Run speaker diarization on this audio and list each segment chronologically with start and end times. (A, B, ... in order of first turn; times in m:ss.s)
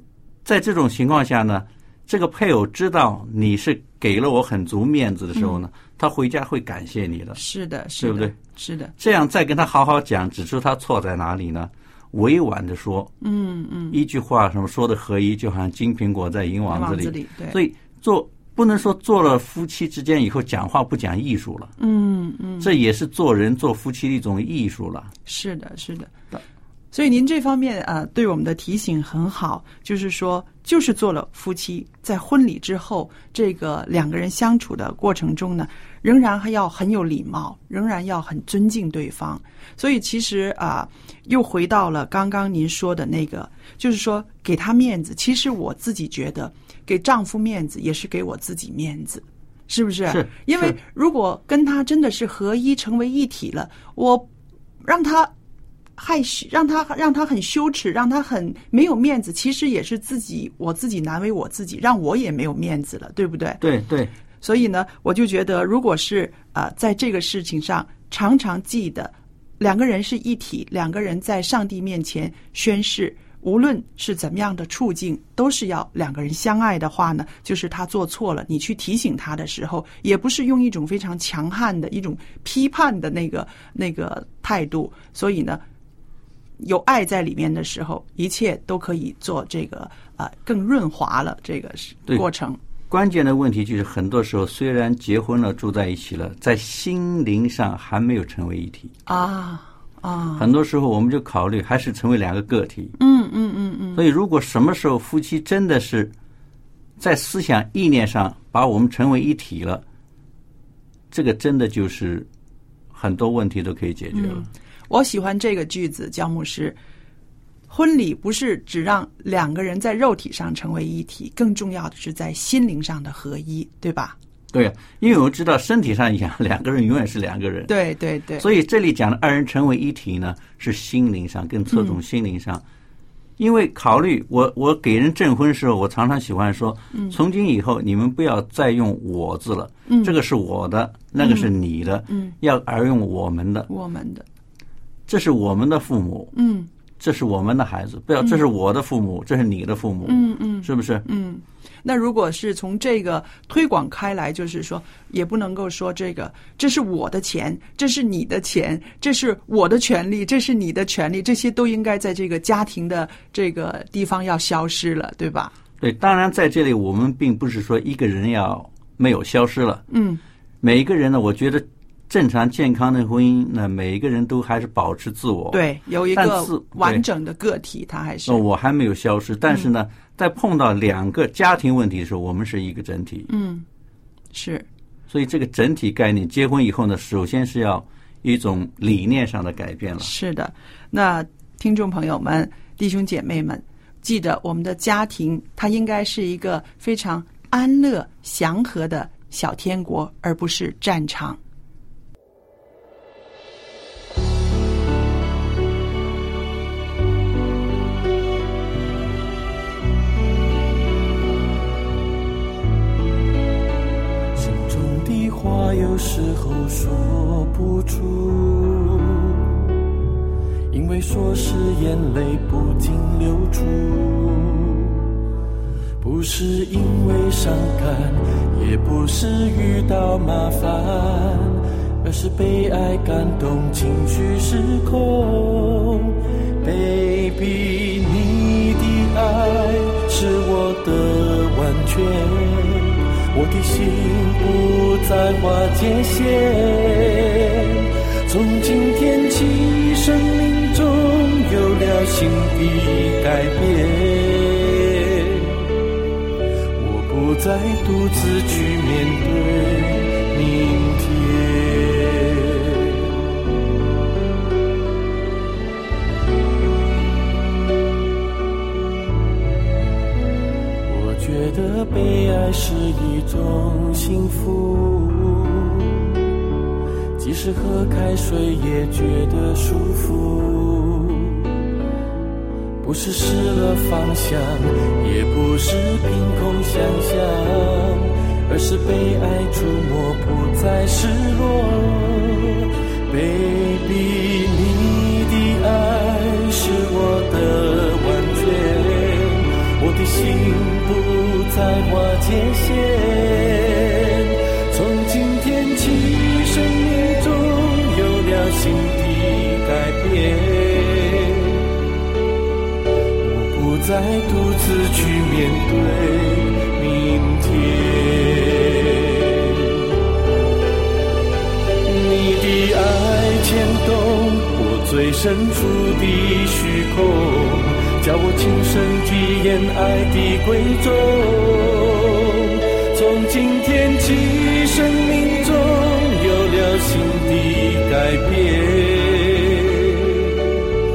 0:00.4-0:07.4 A
0:05.4-0:05.6 B
0:07.4-0:08.9 B
0:08.0-0:08.4 A
0:09.0-0:13.1 A
0:13.2-0:14.0 B
0:13.9-0:21.8 A
0:16.7-0:17.6 B
0:21.8-0:22.7 B
0:22.6-0:25.1 A
0:25.3-0:26.1 B
0:26.9-0:54.3 B
0:50.1-0:50.8 A
0:54.8-0:55.3 B
0:56.0-1:03.6 B
1:03.6-1:04.1 A
1:04.4-1:25.6 B
1:26.6-1:32.6 B
1:32.9-1:38.9 A
1:39.1-1:40.5 B
1:40.4-1:43.0 A
1:43.0-1:44.0 B
1:44.0-1:46.1 A
1:47.0-1:49.8 A
1:51.1-1:52.3 A
1:52.9-1:54.5 A
1:54.1-1:56.8 B
1:57.7-2:04.2 B
2:04.5-2:07.7 A
2:07.7-2:08.5 B
2:08.4-2:12.6 A
2:11.7-2:12.0 B
2:13.4-2:23.7 A
2:19.9-2:20.2 B
2:21.2-2:21.5 B
2:22.1-2:22.4 B
2:23.7-2:24.2 B
2:25.1-2:26.4 A
2:26.3-2:26.7 B
2:27.0-2:31.0 A
2:30.1-2:45.5 B
2:45.8-2:49.8 A
2:49.9-2:50.2 B
2:50.6-2:55.6 A
2:55.5-2:58.4 B
2:56.1-2:57.0 A
2:58.3-3:03.3 A
3:03.3-3:03.6 B
3:04.3-3:04.7 B
3:05.1-3:10.1 A
3:10.0-3:21.4 B
3:34.4-3:39.7 C
3:40.7-3:45.1 C
3:46.0-4:15.7 C
4:16.8-4:23.3 C
4:30.9-4:36.1 C
4:37.2-4:41.6 C
4:42.8-5:11.6 C
5:13.2-5:20.0 C
5:21.8-5:40.6 C